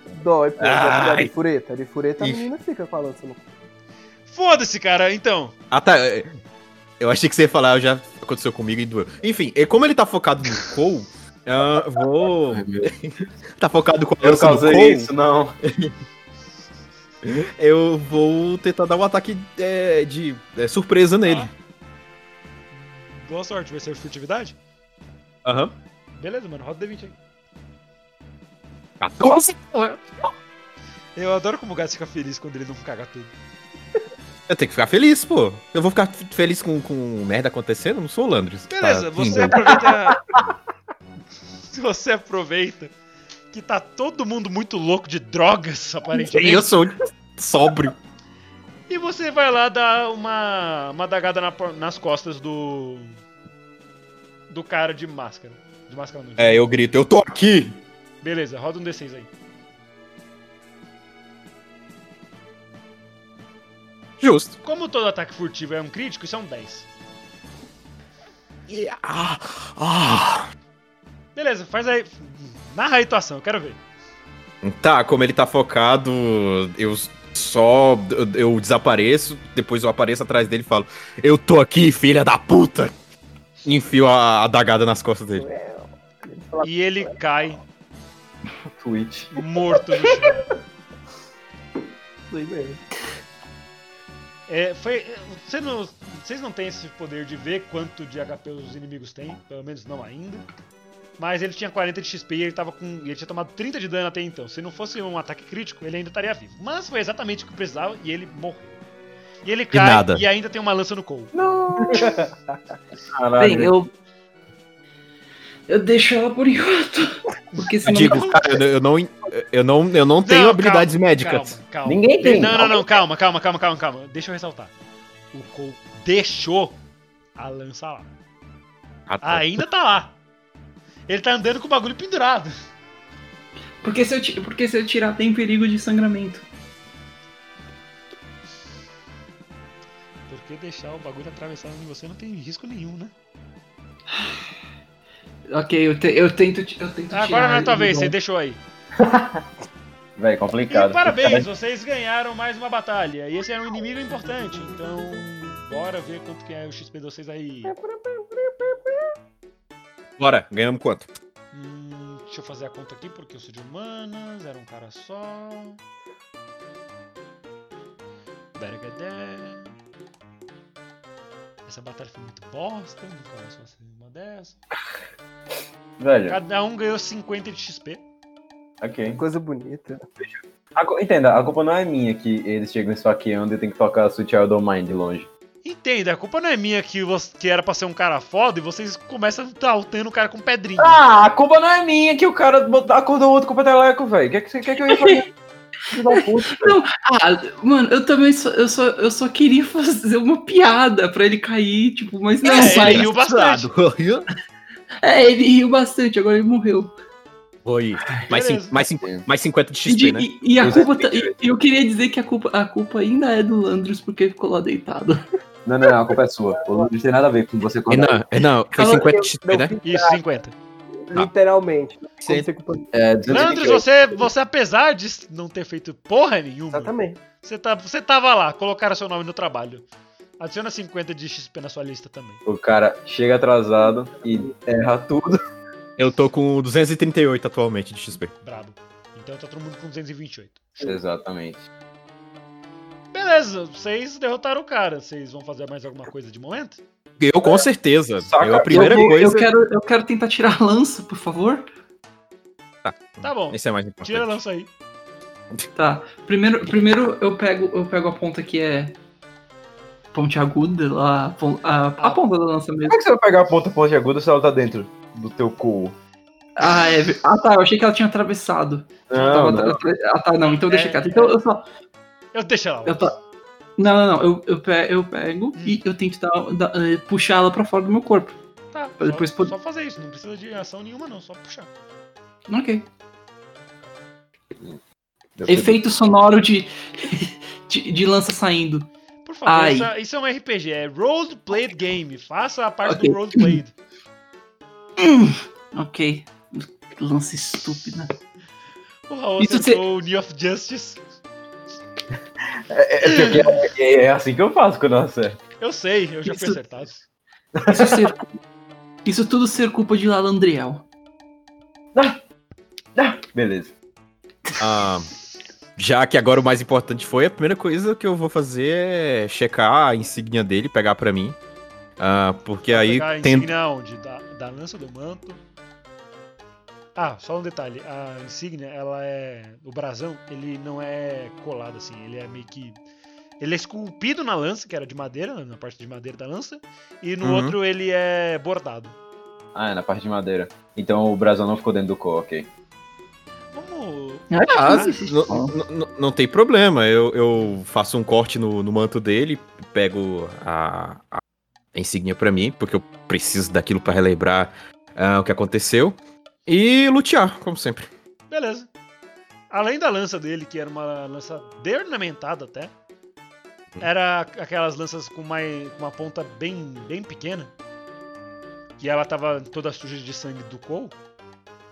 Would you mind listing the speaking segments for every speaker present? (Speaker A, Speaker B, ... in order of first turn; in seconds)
Speaker A: 0.1-3.5, 85.3-87.1, 92.3-92.8, 111.8-112.1, 157.7-159.0, 179.1-180.1, 218.8-220.2, 221.1-223.8, 226.7-227.2
Speaker B: 0.6-1.3, 2.2-2.5, 5.7-6.3, 7.0-15.1, 17.2-21.5, 25.4-25.7, 29.0-30.1, 34.5-40.1, 46.1-48.0, 56.4-57.8, 64.2-64.6, 68.7-70.5, 74.6-82.9, 83.7-85.5, 109.7-110.2, 117.8-121.6, 129.1-129.6, 160.2-161.1, 202.4-204.3, 207.7-210.3, 217.9-219.8, 222.2-222.5, 236.0-238.3, 247.2-249.4, 252.8-254.3, 314.6-315.1, 315.8-321.4, 322.0-323.5, 337.2-337.6, 344.5-351.2, 351.7-357.9
Speaker C: 4.3-5.5, 21.2-21.5, 22.7-24.6, 26.1-27.2, 31.2-33.3, 38.7-40.2, 41.7-42.9, 43.5-46.7, 48.9-53.2, 54.5-56.7, 58.2-59.3, 64.6-66.9, 71.3-73.8, 86.6-87.6, 89.3-90.4, 94.5-100.5, 101.2-108.8, 109.5-111.4, 117.5-118.4, 120.2-124.7, 125.3-126.8, 127.4-128.1, 129.2-130.2, 131.1-132.5, 140.3-143.1, 147.1-148.6, 150.7-157.8, 161.5-165.8, 168.6-169.7, 171.7-174.6, 176.3-178.0, 185.6-191.0, 202.4-203.7, 208.3-208.9, 219.8-220.5, 223.3-229.9, 230.4-232.4, 238.4-241.0, 243.1-246.8, 253.2-254.7, 270.7-271.4, 272.3-273.2, 278.7-281.7, 289.2-293.7, 299.1-301.0, 303.0-303.4, 305.6-307.1, 322.7-325.4, 327.0-332.8, 333.4-339.0, 343.5-345.0, 358.3-358.7, 359.5-362.7, 363.8-367.5, 368.8-371.0
Speaker D: 12.5-12.9, 14.2-15.6, 88.7-89.3, 111.3-112.3, 113.1-113.7, 121.9-122.9, 149.0-149.4, 150.2-151.5, 176.0-176.4, 178.8-179.2, 180.2-185.3, 190.8-195.3, 195.9-196.8, 210.6-211.3, 215.7-218.2, 222.9-224.3, 232.4-235.4, 240.8-241.6, 248.2-249.5, 262.9-266.0, 269.1-269.8, 285.4-285.7, 302.7-305.4, 307.6-308.0, 312.9-313.7, 339.6-342.5
Speaker E: 113.4-113.9, 115.7-118.4, 133.8-136.5, 145.5-148.2, 194.9-195.2, 196.1-203.1, 205.0-206.9, 209.9-215.2, 248.7-251.7, 255.8-259.0, 260.1-263.0, 266.6-271.7, 272.9-273.1, 273.8-278.4, 279.0-279.5, 282.5-282.9, 285.5-288.9, 289.5-289.9, 292.9-293.6, 295.0-298.1, 299.4-299.8, 307.7-308.2, 309.1-310.9, 344.3-345.5